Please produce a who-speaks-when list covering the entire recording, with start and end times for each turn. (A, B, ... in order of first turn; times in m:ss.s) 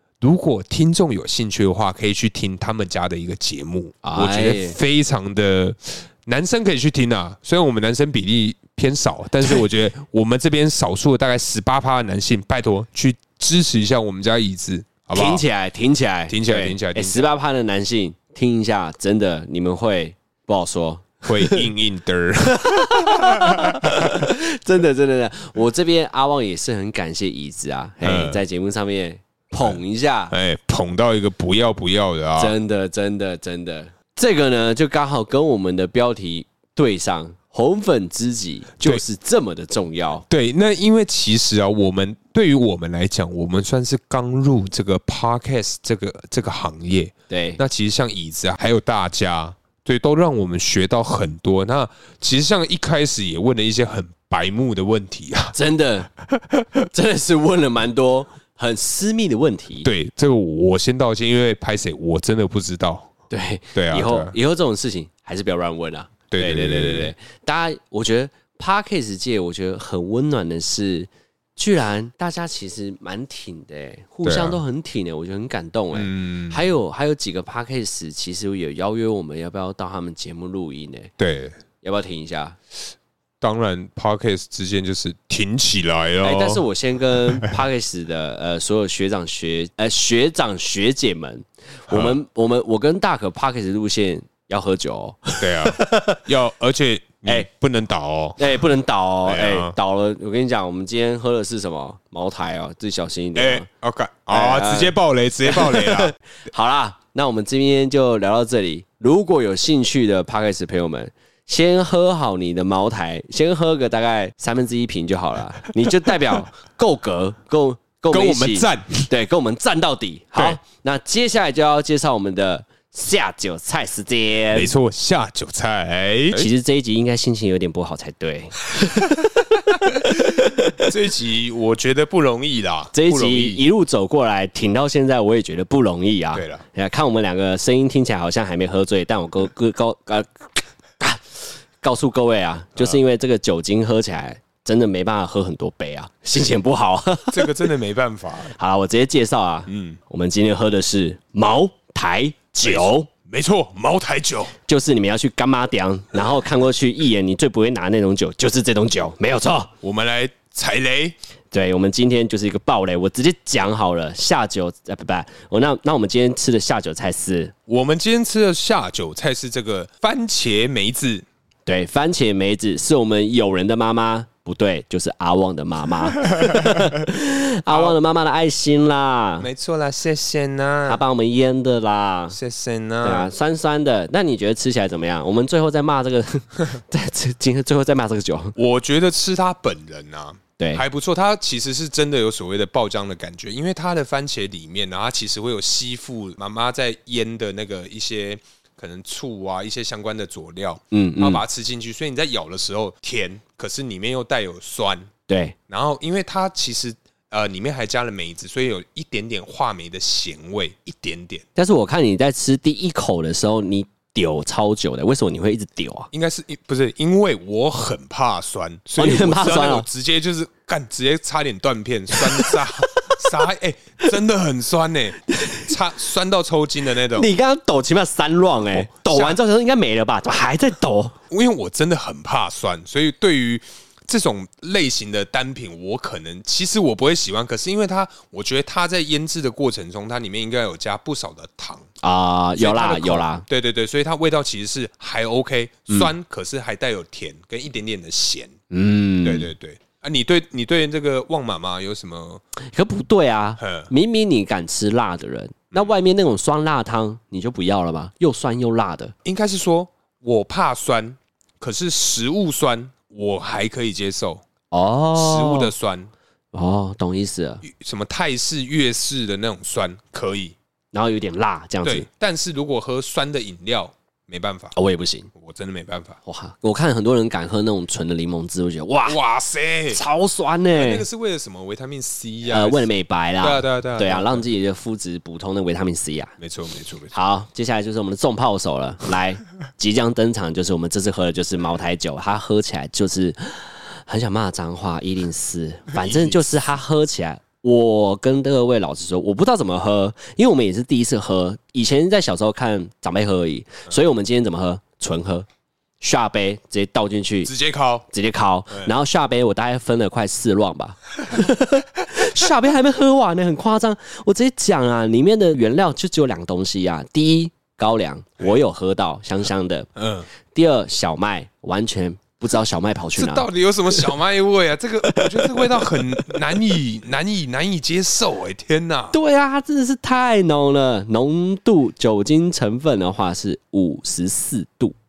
0:00.2-0:15.4 A
0:04.0-0:04.8 B
0:15.1-0:21.7 B
0:16.3-0:17.3 A
0:21.2-0:24.3 A
0:22.4-0:30.3 B
0:28.0-0:28.4 A
0:30.3-0:32.5 A
0:32.4-0:40.2 B
0:40.3-0:55.5 A
0:47.3-0:47.6 B
0:55.5-0:56.1 B
0:56.4-0:56.8 A
0:56.9-0:59.9 B
0:59.8-1:03.1 A
1:03.3-1:21.1 B
1:03.7-1:04.3 A
1:06.3-1:07.1 A
1:14.2-1:14.6 A
1:15.9-1:16.6 A
1:21.2-1:21.6 A
1:21.8-1:22.6 B
1:23.4-1:26.6 A
1:26.2-1:36.2 B
1:27.3-1:27.6 A
1:31.9-1:32.2 A
1:35.4-1:38.6 A
1:38.4-1:43.7 B
1:39.2-1:39.7 A
1:43.4-1:46.1 A
1:44.3-2:04.7 B
1:58.1-1:59.1 A
2:04.5-2:06.5 A
2:06.3-2:10.9 B
2:09.9-2:13.6 A
2:12.9-2:27.7 B
2:16.3-2:16.6 A
2:27.3-2:28.5 A
2:28.4-2:33.1 B
2:29.7-2:30.0 A
2:32.6-2:34.5 A
2:34.6-2:39.7 B
2:39.8-2:41.2 A
2:41.5-2:47.5 B
2:47.7-2:51.2 A
2:51.6-2:59.5 B
2:56.3-2:57.0 A
2:57.7-2:58.0 A
2:59.4-3:01.0 A
3:00.9-3:02.4 B
3:02.3-3:03.3 A
3:03.0-3:08.6 B
3:08.6-3:25.1 A
3:10.6-3:10.8 B
3:20.9-3:21.4 B
3:25.3-3:25.6 B
3:25.7-3:31.4 A
3:31.6-3:36.1 B
3:36.1-3:47.3 A
3:39.0-3:39.9 B
3:42.1-3:43.4 B
3:45.3-3:45.7 B
3:47.1-3:51.1 B
3:48.7-3:49.4 A
3:51.3-4:01.9 A
4:02.0-4:03.4 B
4:02.6-4:08.6 A
4:08.7-4:09.5 B
4:09.2-4:12.4 A
4:12.6-4:19.1 B
4:13.6-4:13.9 A
4:19.2-4:24.4 A
4:24.7-4:25.7 B
4:25.1-4:26.1 A
4:26.5-4:27.6 B
4:27.6-4:30.5 A
4:30.9-4:32.1 B
4:31.8-4:34.7 A
4:34.7-4:35.3 B
4:35.3-4:36.2 A
4:36.2-4:39.2 B
4:39.0-4:40.0 A
4:39.9-4:41.0 B
4:40.7-4:44.4 A
4:42.5-4:46.3 B
4:46.4-4:47.1 A
4:47.1-5:05.4 B
4:56.0-4:56.4 A
5:06.0-5:07.5 B
5:07.4-5:08.1 A
5:08.1-5:19.9 B
5:20.0-5:20.3 A
5:20.5-5:23.5 B
5:23.2-5:29.2 A
5:25.1-5:26.0 B
5:29.1-5:34.9 B